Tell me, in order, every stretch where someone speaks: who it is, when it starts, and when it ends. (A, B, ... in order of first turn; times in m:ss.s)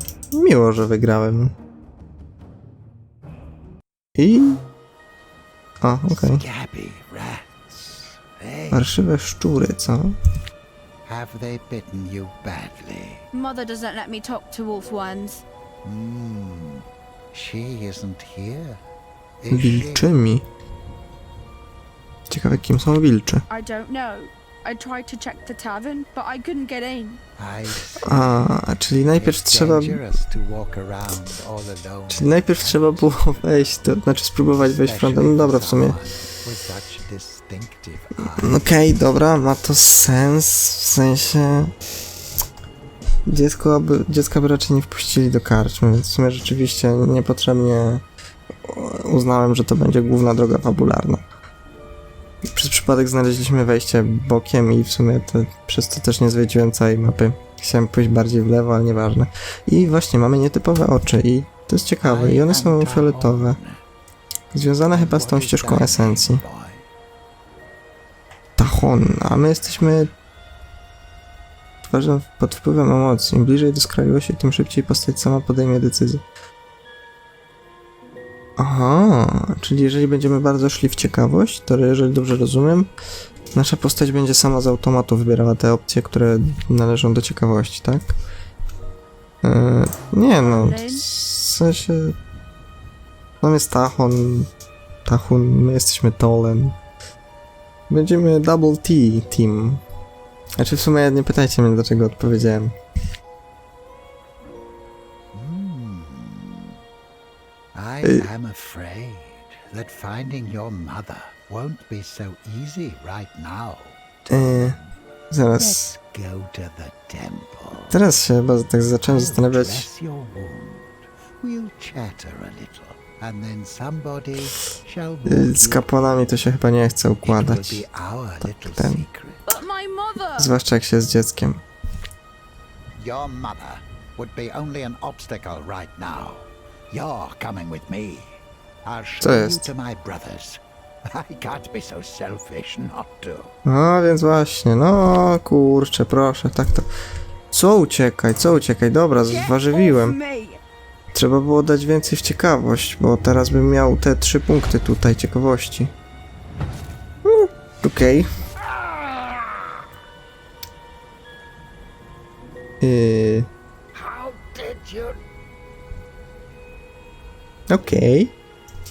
0:00.3-0:01.5 A
0:04.1-0:04.6 A
0:05.8-0:06.4 A
0:06.1-0:08.9 B
0:08.7-0:10.2 A
0:11.0-0:13.2 B
0:13.3-0:15.4 C
0:15.8-0:18.8 B
0:19.4-0:20.1 B
0:19.5-0:20.4 A
0:22.3-0:23.4 A
0:23.5-0:27.2 C
0:27.4-0:28.5 B
0:28.0-0:30.0 A
0:29.0-0:34.0 B
0:32.1-0:36.0 A
0:34.5-0:38.9 B
0:38.3-0:41.7 A
0:43.2-0:48.0 A
0:48.6-0:51.2 A
0:52.5-1:03.6 A
1:02.0-1:03.8 B
1:04.5-1:06.4 A
1:04.9-1:06.9 B
1:08.6-1:10.1 A
1:11.8-1:16.2 A
1:18.6-1:22.9 A
1:23.5-1:28.1 A
1:29.4-1:32.2 A
1:30.4-1:31.0 C
1:33.4-1:34.5 A
1:35.0-1:36.8 A
1:37.9-1:39.8 A
1:40.6-1:42.8 A
1:45.3-1:46.7 B
1:47.7-1:54.9 B
1:48.0-1:48.3 A
1:54.3-1:54.8 A
1:55.3-1:55.9 A
1:55.6-1:58.0 B
1:57.9-1:59.9 A
1:59.0-2:05.9 B
2:05.2-2:07.8 A
2:07.2-2:09.6 B
2:08.4-2:09.0 A
2:09.5-2:10.5 C
2:10.4-2:11.6 A
2:13.0-2:23.5 B
2:19.2-2:19.7 A
2:23.6-2:26.9 A
2:27.5-2:30.2 A
2:29.3-2:30.6 C
2:31.1-2:35.9 A
2:37.2-2:38.3 A
2:38.7-2:39.5 B
2:42.8-2:43.5 A
2:43.9-2:45.2 B
2:47.7-2:48.3 A